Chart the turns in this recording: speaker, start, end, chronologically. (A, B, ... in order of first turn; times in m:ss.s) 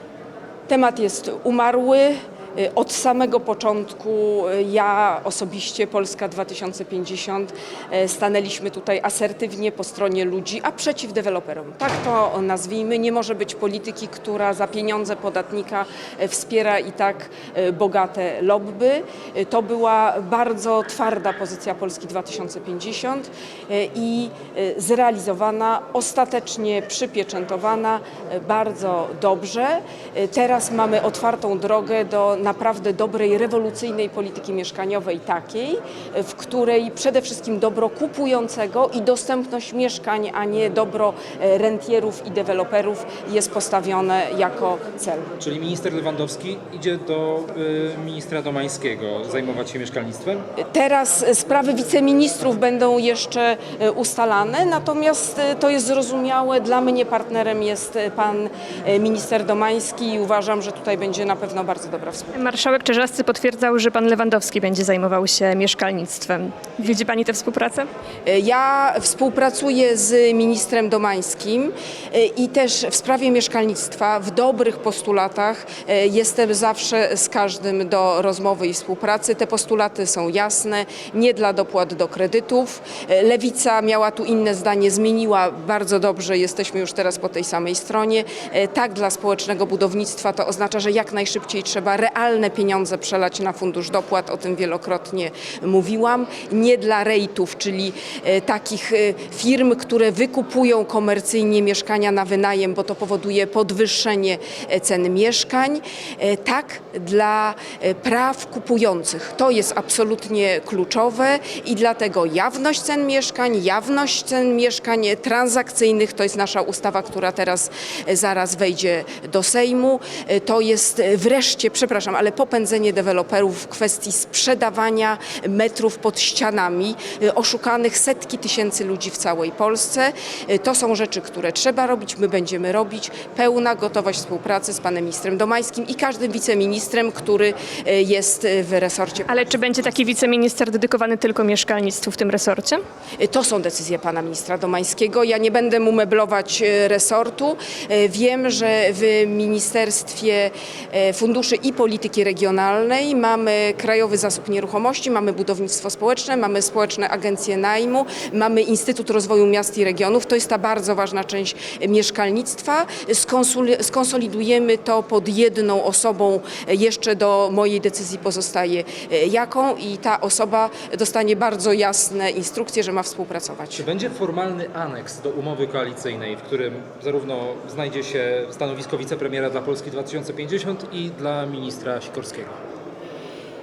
0:00.7-0:45.3 A
0:45.4-0:50.4 B
0:50.6-1:02.3 A
1:02.3-1:07.9 C
1:08.2-2:19.5 A
2:19.3-2:22.8 C
2:23.2-2:53.8 A
2:53.8-3:02.6 B